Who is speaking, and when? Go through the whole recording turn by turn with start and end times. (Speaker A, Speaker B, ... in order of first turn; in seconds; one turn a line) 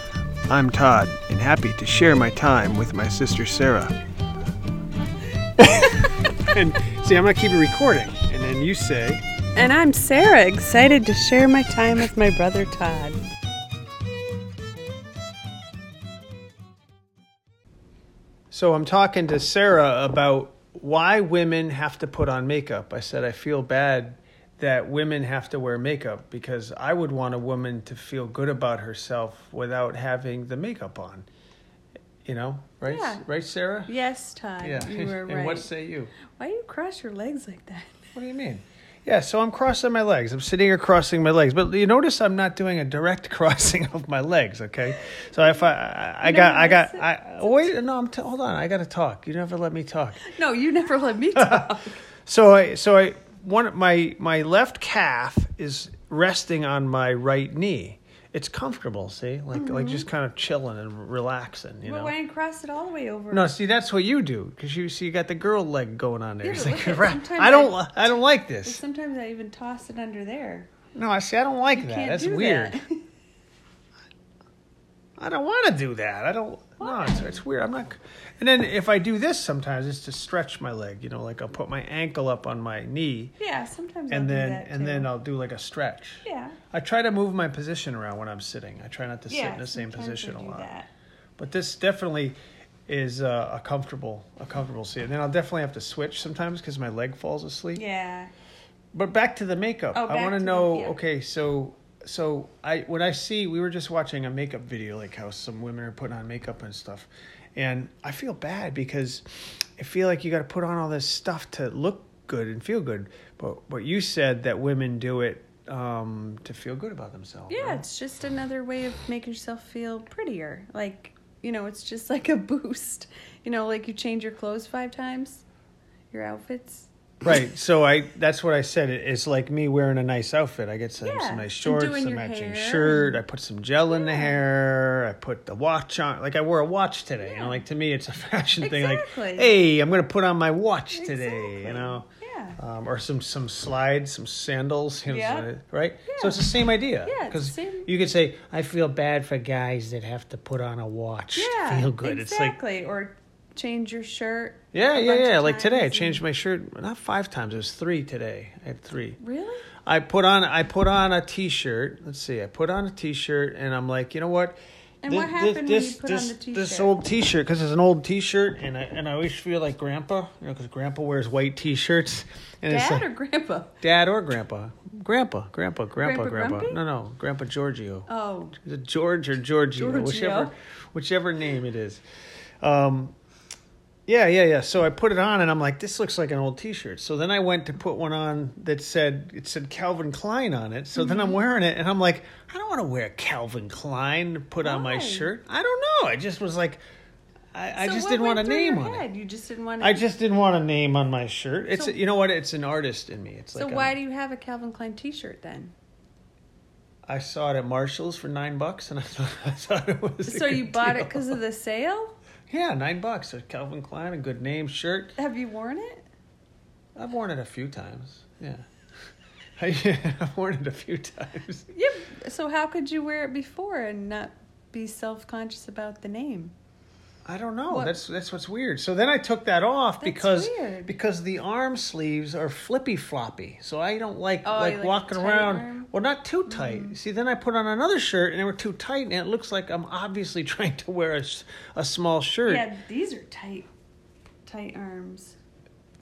Speaker A: 0.5-4.0
Speaker A: 5.6-9.2
Speaker B: 5.6-6.1
Speaker B: 9.5-13.2
Speaker A: 18.5-31.3
Speaker A: 32.2-33.9
Speaker B: 32.9-33.2
Speaker B: 33.9-35.7
Speaker A: 34.6-36.1
Speaker B: 36.3-38.1
Speaker A: 38.1-50.2
Speaker B: 46.2-47.7
Speaker B: 50.2-52.0
Speaker A: 51.4-51.7
Speaker A: 52.2-62.1
Speaker B: 59.5-60.1
Speaker B: 61.9-63.6
Speaker A: 63.3-68.8
Speaker B: 66.4-70.7
Speaker A: 70.9-72.8
Speaker B: 71.8-73.1
Speaker A: 75.2-83.3
Speaker B: 76.8-77.4
Speaker B: 83.4-85.1
Speaker A: 84.1-90.7
Speaker B: 86.2-86.6
Speaker B: 89.3-90.9
Speaker A: 91.4-92.4
Speaker A: 92.9-97.8
Speaker B: 97.8-98.3
Speaker A: 98.9-109.2
Speaker B: 99.9-101.0
Speaker A: 109.8-117.8
Speaker B: 117.5-125.5
Speaker B: 126.1-126.9
Speaker A: 127.2-142.1
Speaker B: 131.0-133.2
Speaker B: 133.9-134.4
Speaker B: 137.2-137.6
Speaker B: 138.6-139.5
Speaker B: 140.9-142.6
Speaker A: 142.6-152.6
Speaker B: 145.1-145.5
Speaker B: 146.1-146.5
Speaker B: 147.0-147.9
Speaker B: 151.3-156.2
Speaker A: 154.7-159.2
Speaker B: 159.2-159.7
Speaker A: 159.8-173.1
Speaker B: 165.0-167.0
Speaker B: 172.7-173.7
Speaker A: 173.8-182.0
Speaker B: 176.0-176.8
Speaker B: 178.1-178.6
Speaker B: 179.8-180.5
Speaker A: 182.6-183.2
Speaker A: 184.1-196.8
Speaker B: 191.0-191.4
Speaker B: 194.6-195.3
Speaker A: 197.5-199.1
Speaker B: 197.8-200.0
Speaker A: 199.8-204.0
Speaker B: 201.7-202.0
Speaker B: 203.6-205.7
Speaker A: 207.1-211.4
Speaker B: 210.3-212.1
Speaker A: 212.5-215.1
Speaker B: 215.2-216.1
Speaker A: 217.0-218.7
Speaker A: 219.6-221.7
Speaker B: 221.7-226.5
Speaker A: 227.2-242.7
Speaker B: 227.7-227.9
Speaker B: 230.0-230.9
Speaker B: 234.4-235.9
Speaker B: 236.5-237.0
Speaker B: 242.5-243.7
Speaker B: 244.4-245.4